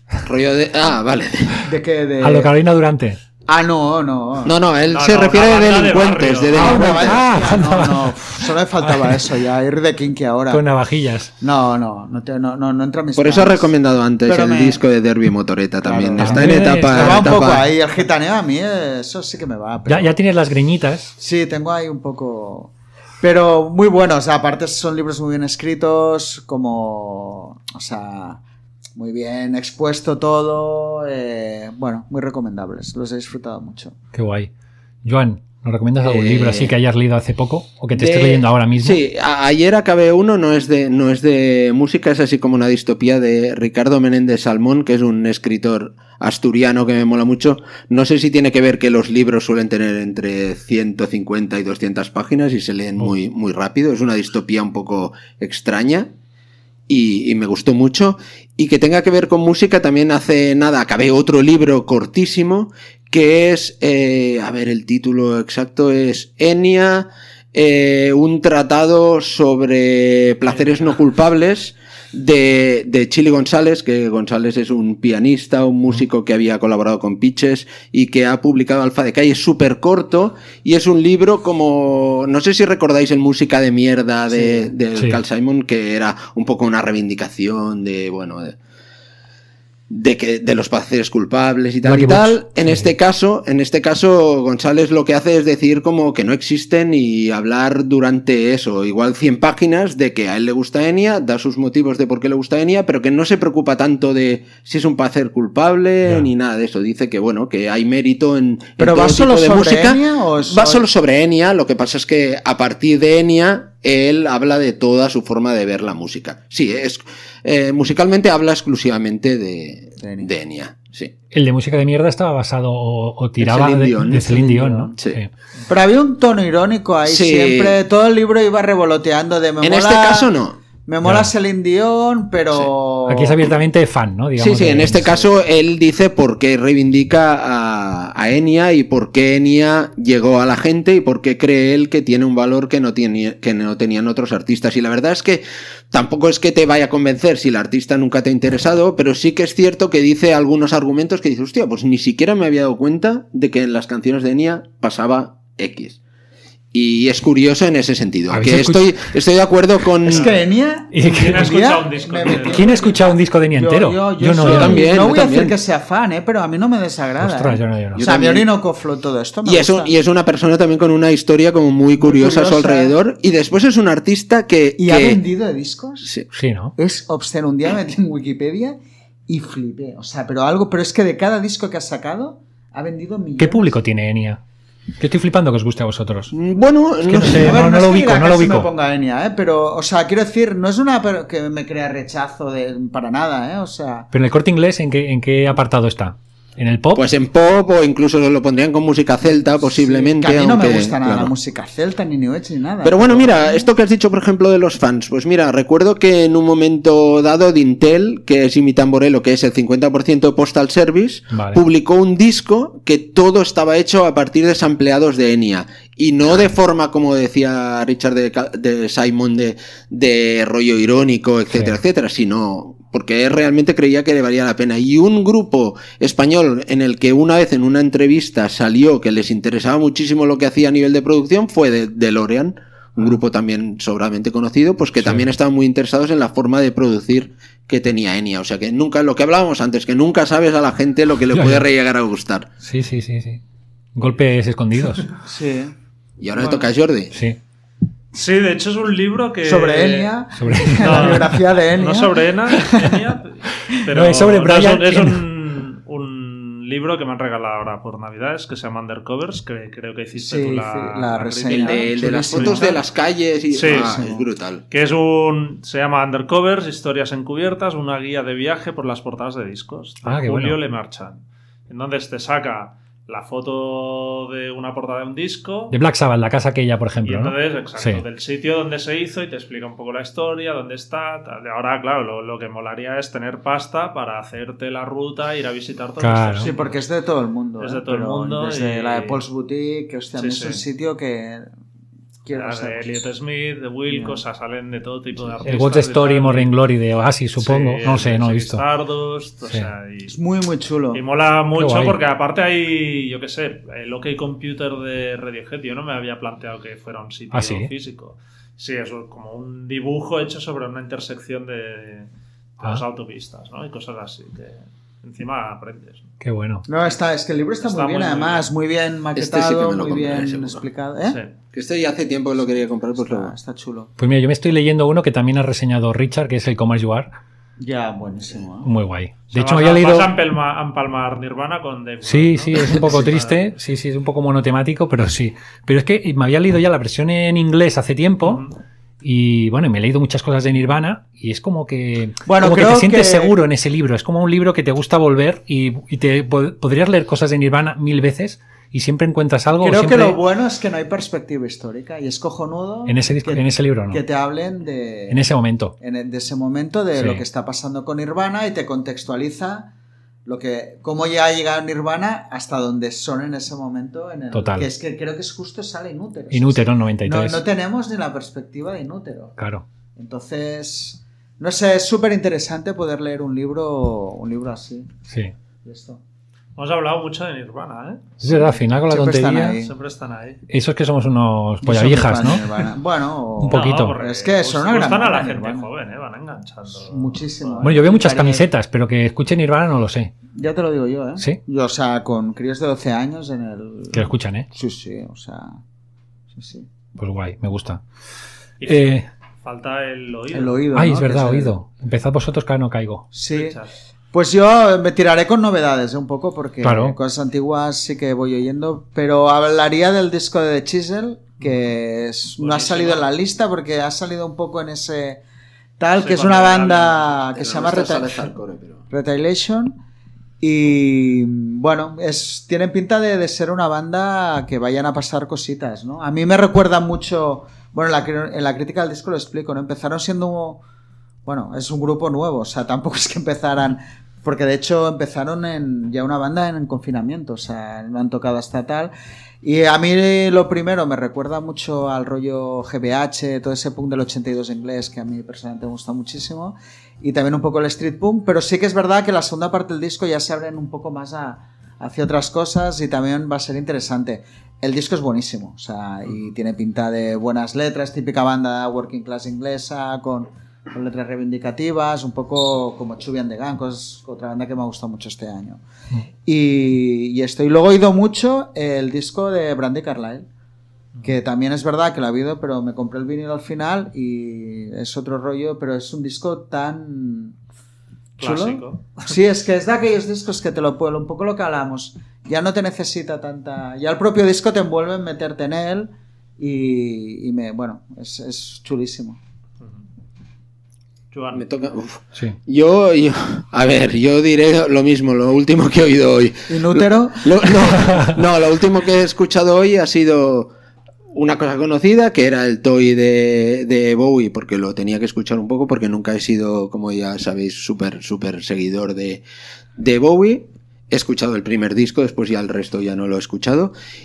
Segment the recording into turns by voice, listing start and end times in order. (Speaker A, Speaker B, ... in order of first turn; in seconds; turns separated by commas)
Speaker A: 0.2-1.7, Speaker B: 1.6-2.5, Speaker C: 2.2-3.2, Speaker B: 3.5-4.5, Speaker A: 4.5-7.2, Speaker D: 4.9-6.8, Speaker B: 6.5-10.6, Speaker C: 6.6-9.2, Speaker C: 10.5-11.3, Speaker B: 11.4-13.7, Speaker A: 13.2-17.7, Speaker B: 14.2-14.8, Speaker B: 15.8-20.1, Speaker C: 16.2-17.4, Speaker C: 19.9-21.1, Speaker B: 21.2-28.4, Speaker B: 29.0-34.0, Speaker C: 34.1-34.5, Speaker C: 35.0-39.0, Speaker A: 36.0-36.7, Speaker A: 38.0-56.1, Speaker A: 56.9-88.6, Speaker D: 70.5-70.8, Speaker B: 84.3-84.7, Speaker C: 85.0-85.2, Speaker A: 89.9-121.1, Speaker C: 91.8-92.9, Speaker B: 108.8-110.8, Speaker B: 120.0-120.3, Speaker C: 121.3-125.3, Speaker A: 123.4-124.3, Speaker B: 124.0-125.0, Speaker B: 125.7-130.3, Speaker A: 127.1-127.8, Speaker A: 129.6-130.6, Speaker B: 130.9-133.4, Speaker C: 131.0-131.3, Speaker C: 133.1-135.3, Speaker A: 134.4-156.0, Speaker A: 156.7-160.3, Speaker C: 158.3-159.1, Speaker B: 160.1-169.9, Speaker C: 160.9-161.5, Speaker D: 161.0-162.9, Speaker C: 162.3-164.8, Speaker A: 164.4-165.6, Speaker C: 167.2-168.1, Speaker A: 167.9-168.5, Speaker A: 169.4-175.2, Speaker B: 172.0-172.9, Speaker B: 174.8-176.1, Speaker A: 176.0-176.3, Speaker C: 176.3-176.8, Speaker B: 176.8-183.8, Speaker C: 183.4-184.4, Speaker C: 185.0-186.3, Speaker A: 186.3-187.7, Speaker C: 187.1-188.7, Speaker B: 187.2-194.1, Speaker C: 194.1-197.1, Speaker A: 196.9-201.3, Speaker B: 199.8-203.7, Speaker A: 202.8-242.5, Speaker C: 211.3-211.6, Speaker C: 221.5-221.8, Speaker C: 235.0-235.3, Speaker C: 241.3-241.7, Speaker C: 242.6-243.4, Speaker C: 243.9-245.1, Speaker B: 245.2-245.7, Speaker A: 246.2-247.1, Speaker C: 247.1-247.4, Speaker D: 248.1-250.1, Speaker B: 249.4-252.8, Speaker C: 250.4-251.4, Speaker D: 250.7-262.8, Speaker C: 253.9-255.3, Speaker B: 260.2-262.8, Speaker A: 261.5-264.6, Speaker D: 263.5-264.1, Speaker B: 263.7-264.3, Speaker D: 264.7-275.8, Speaker C: 270.0-270.6, Speaker C: 275.7-278.0, Speaker D: 277.1-286.8, Speaker C: 286.0-286.5, Speaker B: 286.4-291.5, Speaker D: 287.6-289.2, Speaker D: 290.2-290.6, Speaker B: 292.2-292.8, Speaker D: 292.3-296.5, Speaker B: 293.9-294.2, Speaker C: 295.4-298.6, Speaker D: 297.4-300.2, Speaker B: 300.1-301.0, Speaker D: 300.9-316.1, Speaker C: 301.6-302.0, Speaker C: 307.3-307.7, Speaker C: 316.2-316.6, Speaker B: 316.7-321.2, Speaker D: 317.6-318.5, Speaker A: 319.2-320.6, Speaker D: 321.1-321.3, Speaker A: 321.5-323.3, Speaker B: 322.4-323.9, Speaker C: 324.0-327.1, Speaker B: 327.6-328.7, Speaker C: 328.6-330.1, Speaker D: 329.3-333.4, Speaker C: 332.0-338.5, Speaker D: 338.2-338.6, Speaker C: 339.0-350.2, Speaker B: 342.2-343.3, Speaker B: 349.6-355.3, Speaker C: 352.9-354.0, Speaker C: 355.1-355.8, Speaker B: 355.8-359.7, Speaker C: 357.0-357.2, Speaker B: 360.3-369.4, Speaker C: 364.3-364.7, Speaker C: 366.3-367.4, Speaker C: 369.4-369.6, Speaker B: 370.0-374.9, Speaker C: 375.1-375.3, Speaker B: 375.6-376.0, Speaker D: 376.6-378.1, Speaker C: 378.2-379.6, Speaker B: 378.3-379.7, Speaker D: 379.5-380.4, Speaker C: 380.5-382.5, Speaker B: 381.6-385.7, Speaker C: 383.4-384.0, Speaker D: 383.5-387.8, Speaker B: 386.7-388.5, Speaker C: 387.6-390.1, Speaker B: 390.3-395.6, Speaker C: 393.9-394.5, Speaker B: 396.4-396.7, Speaker C: 397.0-397.8, Speaker D: 398.6-400.6, Speaker C: 398.6-399.1, Speaker B: 400.3-401.6, Speaker C: 400.8-403.1, Speaker B: 403.1-403.6, Speaker D: 403.3-403.7, Speaker B: 404.1-415.2, Speaker C: 406.6-407.0, Speaker D: 412.4-413.0, Speaker B: 415.8-418.3, Speaker D: 416.0-417.2, Speaker A: 417.4-418.8, Speaker B: 418.9-419.8, Speaker B: 420.4-430.6, Speaker B: 431.3-438.9, Speaker B: 439.4-465.6, Speaker B: 466.3-470.3, Speaker B: 471.0-477.4, Speaker B: 478.2-489.2, Speaker D: 478.2-479.2, Speaker D: 491.1-491.4, Speaker A: 491.3-500.5, Speaker B: 496.5-497.6, Speaker A: 501.1-509.2, Speaker A: 509.8-513.7